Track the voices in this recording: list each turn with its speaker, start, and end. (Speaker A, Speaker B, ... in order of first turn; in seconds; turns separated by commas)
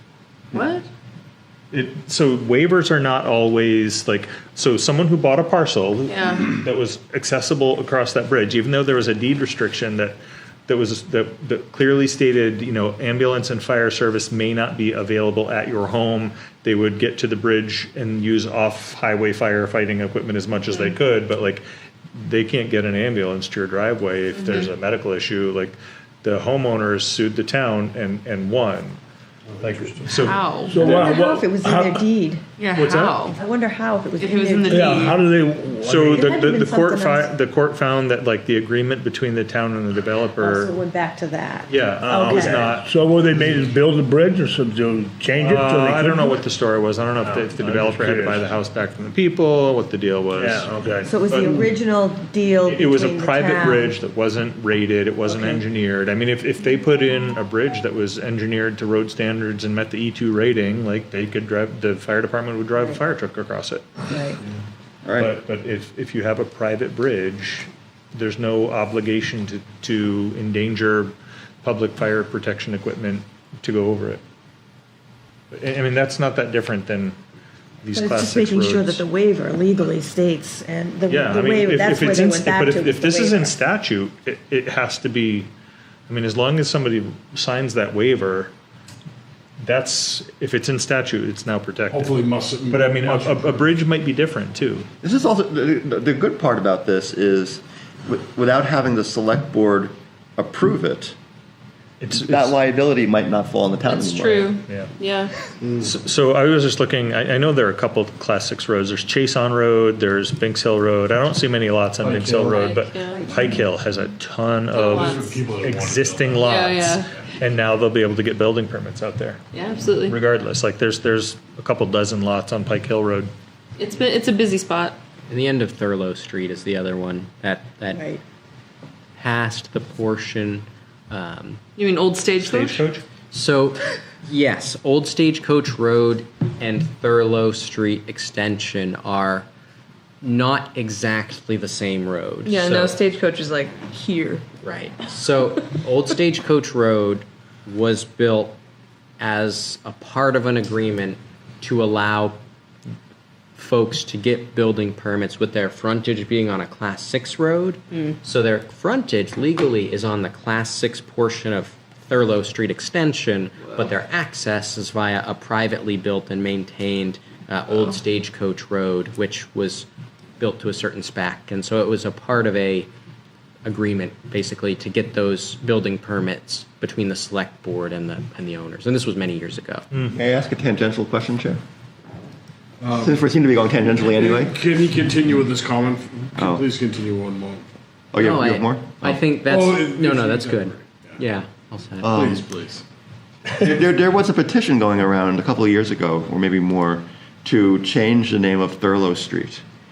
Speaker A: 0.5-0.8, Speaker B: 1.7-21.6, Speaker A: 6.1-6.4, Speaker B: 22.1-29.0, Speaker A: 24.4-24.7, Speaker C: 29.6-30.1, Speaker B: 29.6-31.0, Speaker A: 30.2-30.9, Speaker D: 30.6-32.1, Speaker E: 30.8-32.4, Speaker A: 32.6-33.4, Speaker B: 32.8-33.2, Speaker E: 33.1-35.2, Speaker A: 34.2-35.2, Speaker D: 34.6-36.3, Speaker B: 35.8-40.7, Speaker E: 36.1-37.3, Speaker E: 40.4-42.7, Speaker B: 41.7-42.9, Speaker D: 42.1-46.4, Speaker B: 45.4-50.7, Speaker D: 47.2-48.4, Speaker D: 50.4-51.6, Speaker E: 51.0-53.9, Speaker B: 52.6-64.1, Speaker E: 55.2-55.6, Speaker E: 64.1-64.4, Speaker F: 65.0-65.3, Speaker B: 65.2-74.2, Speaker B: 75.5-77.2, Speaker B: 77.8-79.0, Speaker E: 77.9-83.5, Speaker B: 81.1-85.5, Speaker B: 86.1-88.5, Speaker B: 89.6-92.2, Speaker C: 91.9-93.7, Speaker B: 92.7-94.9, Speaker F: 95.0-101.2, Speaker B: 102.0-102.5, Speaker F: 102.1-104.5, Speaker A: 103.9-105.3, Speaker B: 105.8-119.4, Speaker C: 112.0-112.6, Speaker A: 112.4-113.3, Speaker C: 114.7-116.6, Speaker A: 114.7-115.4, Speaker A: 116.4-117.1, Speaker A: 119.5-120.2, Speaker B: 120.0-123.3, Speaker A: 123.8-125.0, Speaker G: 125.3-128.1, Speaker E: 127.9-128.2, Speaker G: 129.2-131.6, Speaker A: 131.8-132.8, Speaker B: 132.4-133.0, Speaker G: 133.3-139.5, Speaker G: 140.2-143.0, Speaker A: 142.4-144.4, Speaker G: 144.6-148.6, Speaker G: 149.2-152.4, Speaker G: 153.6-169.9, Speaker G: 170.4-172.9, Speaker G: 173.6-179.8, Speaker B: 179.9-180.2, Speaker F: 180.1-181.6, Speaker C: 182.8-183.2, Speaker F: 183.0-184.6, Speaker C: 184.1-187.7, Speaker F: 186.4-186.7, Speaker F: 188.1-189.2, Speaker G: 188.2-192.2, Speaker C: 189.4-191.2, Speaker F: 192.0-192.5, Speaker C: 192.0-192.8, Speaker F: 193.6-199.6